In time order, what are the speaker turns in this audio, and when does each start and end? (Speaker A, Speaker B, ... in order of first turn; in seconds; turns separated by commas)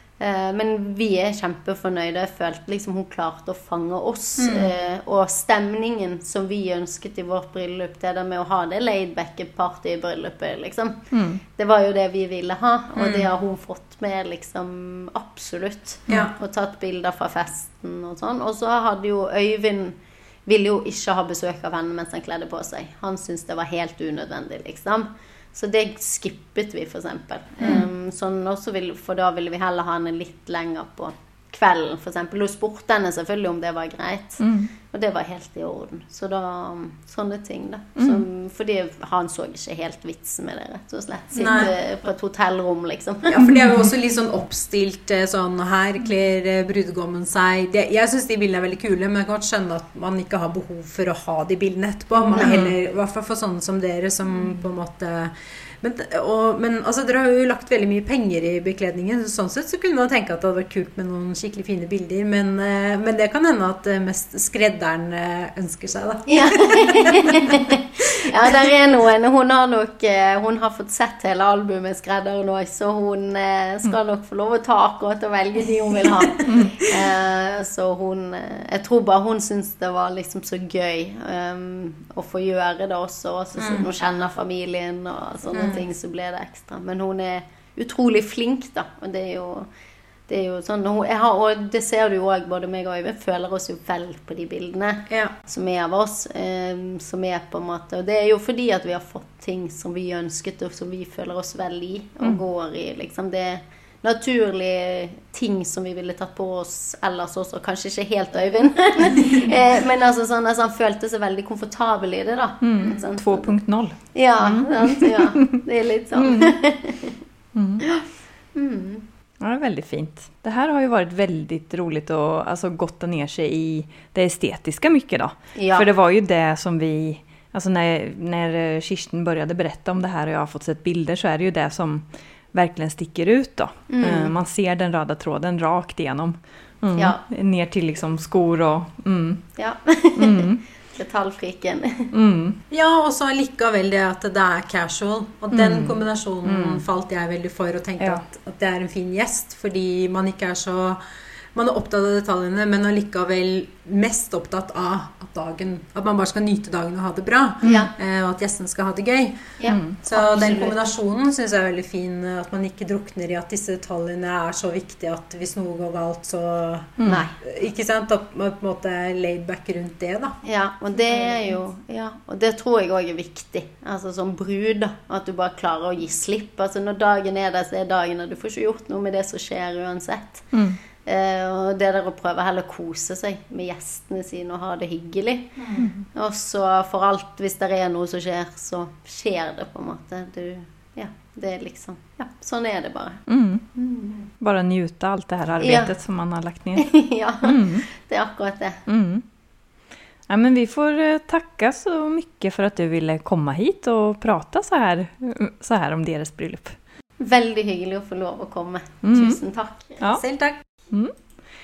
Speaker A: 0.2-43.7, Speaker B: 4.4-4.7, Speaker C: 11.1-11.4, Speaker C: 13.0-13.2, Speaker C: 34.4-34.7, Speaker C: 38.0-38.2, Speaker B: 41.4-41.7, Speaker B: 43.3-67.7, Speaker C: 52.4-52.7, Speaker A: 66.3-89.7, Speaker C: 76.5-76.7, Speaker B: 83.6-83.8, Speaker B: 85.5-85.8, Speaker A: 90.3-113.5, Speaker C: 112.6-115.6, Speaker A: 114.1-117.2, Speaker C: 116.2-116.5, Speaker C: 117.5-117.8, Speaker A: 117.8-119.0, Speaker C: 119.4-139.4, Speaker A: 125.5-125.9, Speaker A: 133.9-134.3, Speaker A: 136.9-137.2, Speaker A: 139.6-142.1, Speaker C: 140.2-140.6, Speaker C: 142.1-142.6, Speaker B: 142.7-151.0, Speaker C: 145.5-146.8, Speaker B: 151.5-170.4, Speaker A: 157.6-157.9, Speaker A: 159.6-160.9, Speaker C: 159.7-159.9, Speaker A: 167.1-167.3, Speaker A: 170.4-180.5, Speaker C: 180.5-180.8, Speaker A: 181.0-193.2, Speaker C: 185.7-186.1, Speaker C: 193.3-193.7, Speaker A: 193.7-194.2, Speaker C: 194.4-197.8, Speaker A: 195.6-195.9, Speaker A: 196.8-198.8, Speaker C: 198.9-199.2, Speaker C: 200.3-206.8, Speaker A: 207.2-210.0, Speaker C: 209.0-209.4, Speaker C: 210.0-210.2, Speaker B: 210.1-210.6